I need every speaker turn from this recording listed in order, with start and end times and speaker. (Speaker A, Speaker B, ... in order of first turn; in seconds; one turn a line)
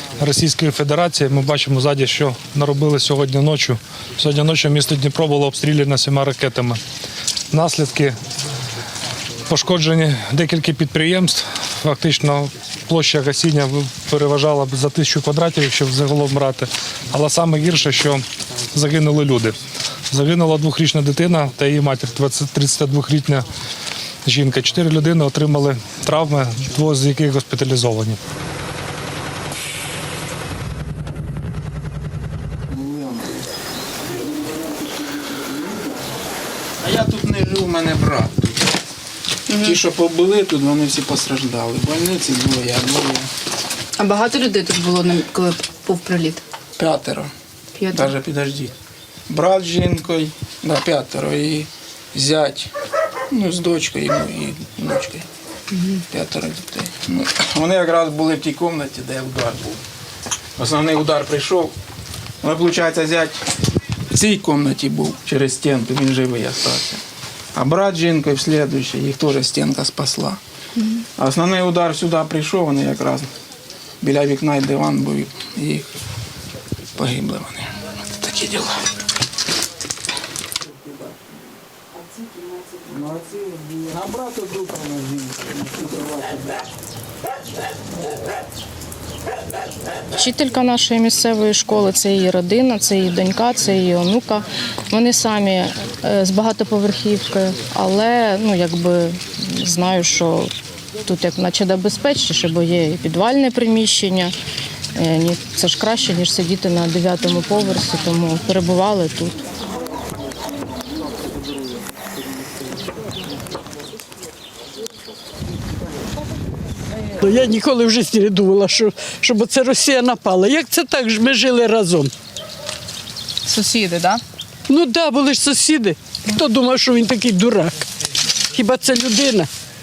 Speaker A: 0.2-6.8
Speaker A: 7.5-8.2
Speaker A: 9.5-19.6
Speaker A: 20.1-23.4
Speaker A: 24.2-28.2
Speaker B: 36.8-38.6
Speaker B: 39.6-43.3
Speaker C: 44.0-46.4
Speaker D: 44.1-46.3
Speaker B: 46.8-47.3
Speaker B: 47.9-48.8
Speaker B: 49.3-52.7
Speaker B: 53.3-55.3
Speaker B: 56.1-59.8
Speaker B: 60.6-61.7
Speaker B: 62.4-63.4
Speaker B: 64.1-67.0
Speaker B: 67.5-70.4
Speaker B: 71.1-73.3
Speaker B: 74.0-75.9
Speaker B: 76.9-78.9
Speaker B: 82.7-86.5
Speaker D: 90.1-100.5
Speaker D: 101.0-104.3
Speaker D: 104.9-109.3
Speaker E: 117.0-122.1
Speaker D: 123.5-124.2
Speaker C: 123.5-124.1
Speaker E: 124.7-127.8
Speaker E: 128.5-129.5